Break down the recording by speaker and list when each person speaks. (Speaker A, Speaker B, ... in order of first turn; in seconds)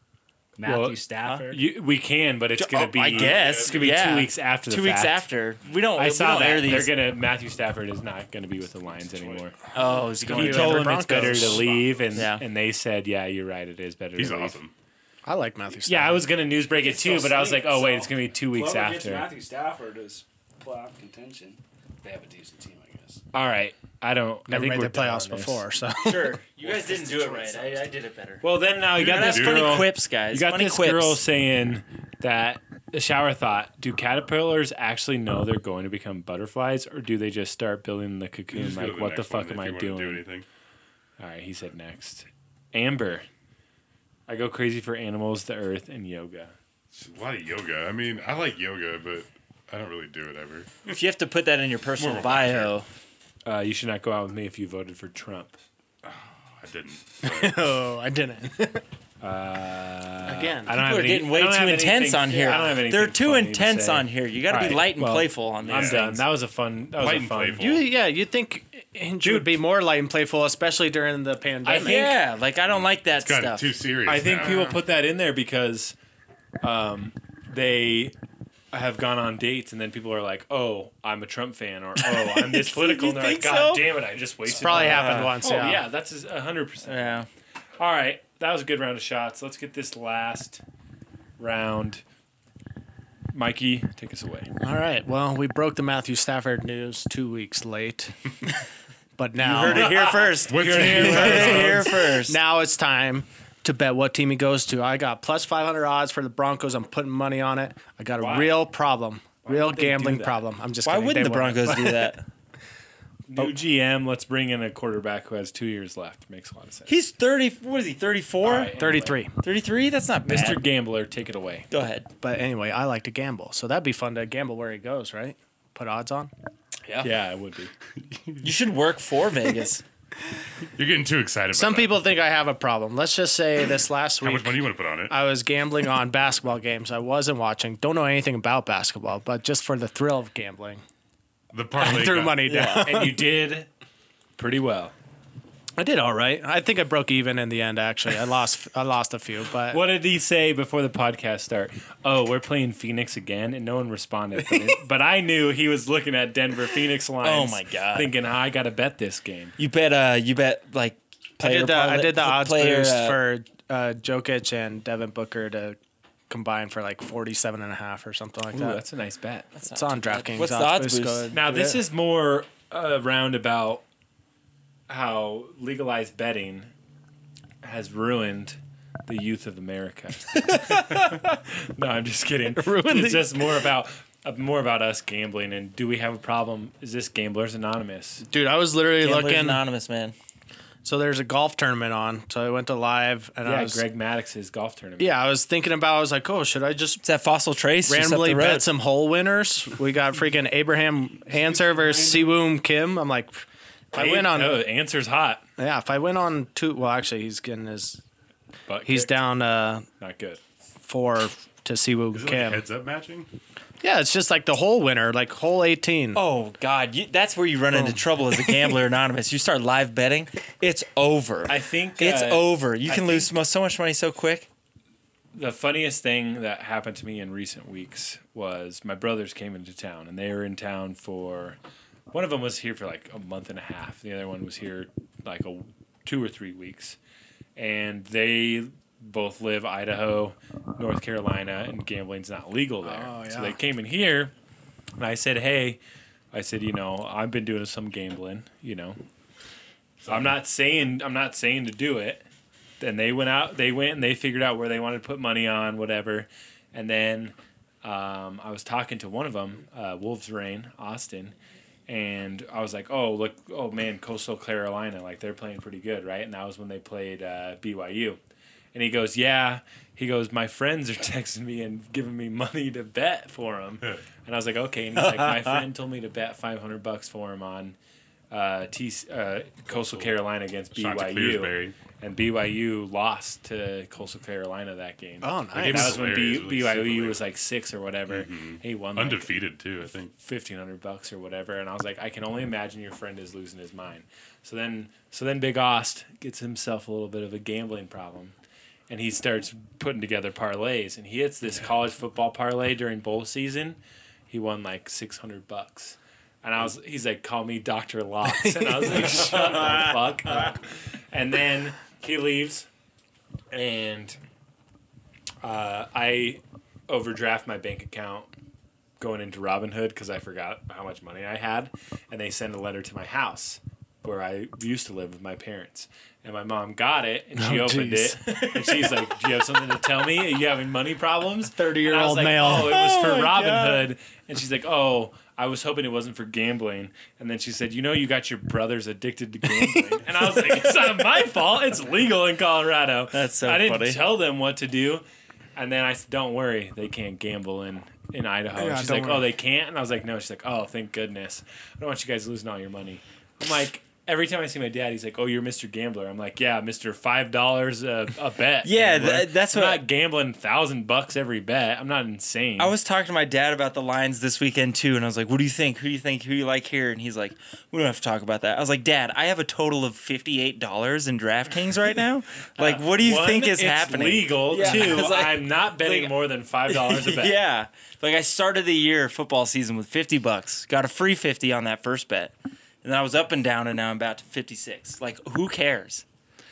Speaker A: 0.6-1.6, 16.8-23.2, 26.6-27.9, 201.3-202.4
Speaker B: 0.6-5.2, 5.9-9.6, 10.2-14.6, 15.8-19.3, 23.3-25.6, 28.4-40.2, 41.2-43.3, 44.3-46.5, 53.5-55.6, 59.2-67.7, 69.2-69.6, 71.7-72.1, 74.1-75.9, 76.6-78.1, 78.7-87.2, 87.8-90.6, 91.4-92.0, 93.3-94.5, 99.7-102.0, 108.2-108.6, 109.4-110.4, 113.3-117.0, 118.4-119.2, 120.2-121.7, 127.0-127.7, 142.8-143.7, 144.4-144.9, 149.7-159.5, 168.5-169.5, 171.3-173.8, 174.9-176.7, 177.6-188.2, 193.4-195.2, 203.9-205.4, 208.7-209.2, 210.0-210.4, 221.5-223.3, 225.3-231.6, 232.1-237.0, 237.6-244.3, 245.0-245.8, 246.3-249.0, 250.1-252.2, 252.8-261.3, 261.9-268.2, 268.7-277.8, 278.3-289.4, 290.1-298.3, 298.9-312.7, 313.5-314.2, 315.4-318.3, 319.0-345.0, 345.6-362.7, 372.6-377.4
Speaker C: 2.6-6.9, 9.7-11.5, 12.1-12.4, 26.0-31.2, 50.9-52.9, 60.7-66.2, 71.7-73.7, 82.0-83.9, 84.6-85.3, 86.8-87.3, 99.4-102.4, 110.8-112.2, 116.9-118.7, 119.4-120.6, 121.7-122.1, 128.4-129.8, 142.4-142.9, 157.2-158.1, 159.6-163.2, 169.6-171.3, 189.0-190.1, 197.0-198.7, 216.1-224.5, 274.9-275.6, 332.4-333.9, 343.1-344.0, 358.6-359.8, 362.6-376.1, 376.7-386.1
Speaker D: 3.1-4.1, 9.0-9.5, 14.2-14.7, 28.9-29.9, 38.5-40.5, 46.9-51.0, 52.0-52.8, 56.0-57.6, 65.6-66.2, 67.0-67.8, 72.7-74.7, 100.5-101.9, 128.1-128.4, 130.8-132.0, 134.2-135.2, 141.5-142.5, 212.1-213.3, 279.6-281.8, 285.6-287.3, 288.1-290.1
Speaker E: 10.2-11.7, 15.2-16.3, 24.5-26.4, 57.2-58.8, 60.3-60.8, 67.6-72.1, 74.4-74.8, 84.5-85.8, 94.6-98.1, 99.2-99.9, 101.3-112.1, 118.8-119.3, 122.2-126.3, 131.5-140.8, 141.8-143.3, 145.8-149.8, 161.4-165.8, 166.3-168.8, 169.7-171.8, 182.6-183.5, 188.2-189.6, 190.8-193.8, 195.0-197.0, 197.9-204.6, 205.6-208.0, 208.9-209.9, 210.8-212.6, 213.8-216.2, 217.7-218.0, 242.8-243.6, 285.2-286.0, 308.3-310.0, 327.4-328.6, 331.6-332.9, 348.6-349.3